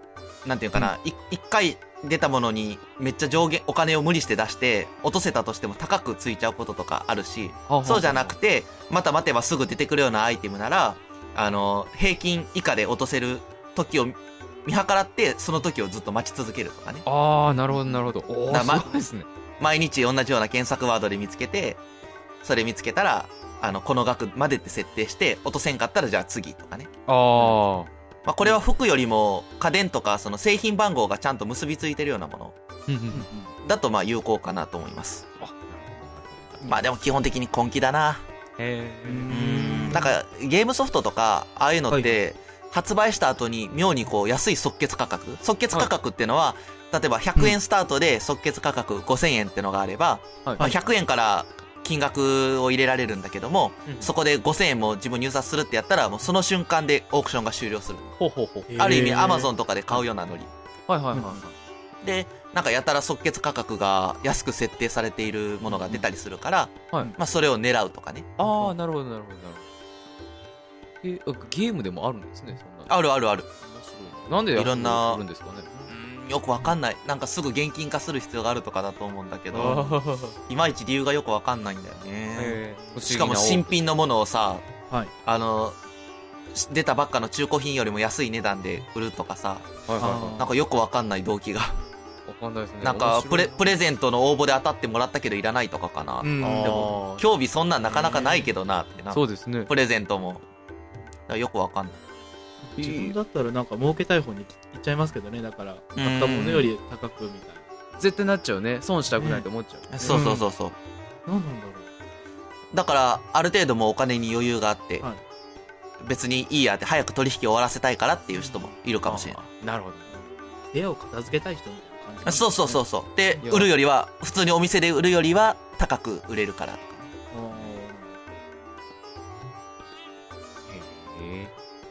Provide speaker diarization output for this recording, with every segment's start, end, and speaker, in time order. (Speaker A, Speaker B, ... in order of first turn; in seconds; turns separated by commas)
Speaker A: 0.5-17.1, Speaker B: 7.7-8.3, Speaker B: 17.1-19.3, Speaker A: 18.5-19.1, Speaker A: 19.6-21.8, Speaker A: 22.4-26.9, Speaker B: 27.1-27.9, Speaker A: 28.2-32.5, Speaker B: 32.9-33.3, Speaker C: 33.1-33.5, Speaker A: 33.6-35.2, Speaker B: 35.4-36.8, Speaker A: 36.6-38.2, Speaker B: 38.6-39.5, Speaker C: 39.1-40.1, Speaker A: 39.3-58.1, Speaker C: 41.9-42.2, Speaker B: 53.9-54.1, Speaker B: 58.2-58.9, Speaker C: 58.7-59.5, Speaker A: 58.8-60.5, Speaker B: 60.9-61.5, Speaker C: 61.1-61.4, Speaker A: 62.0-68.3, Speaker B: 68.4-69.7, Speaker B: 71.0-73.0, Speaker A: 72.9-73.5, Speaker B: 73.6-75.9, Speaker A: 74.5-75.2, Speaker A: 75.9-80.0, Speaker B: 79.5-80.3, Speaker A: 80.5-84.7, Speaker B: 82.4-83.8, Speaker A: 85.2-85.8, Speaker A: 86.5-91.8, Speaker B: 89.9-90.4, Speaker C: 90.0-90.5, Speaker B: 92.3-93.8, Speaker A: 92.8-100.4, Speaker C: 96.2-97.0, Speaker B: 96.4-97.2, Speaker C: 97.9-98.5, Speaker B: 99.1-99.7, Speaker A: 101.3-102.0, Speaker C: 102.7-107.6, Speaker B: 102.8-103.2, Speaker A: 106.0-106.7, Speaker B: 108.0-110.2, Speaker C: 109.2-109.5, Speaker A: 109.9-110.8, Speaker C: 110.1-110.5, Speaker C: 111.3-111.9, Speaker A: 112.7-115.0, Speaker A: 116.0-119.4, Speaker C: 118.3-118.7, Speaker B: 119.1-120.1, Speaker C: 120.1-123.5, Speaker A: 122.2-127.1, Speaker B: 123.4-123.7, Speaker C: 127.3-128.3, Speaker B: 127.5-127.8, Speaker B: 130.7-131.5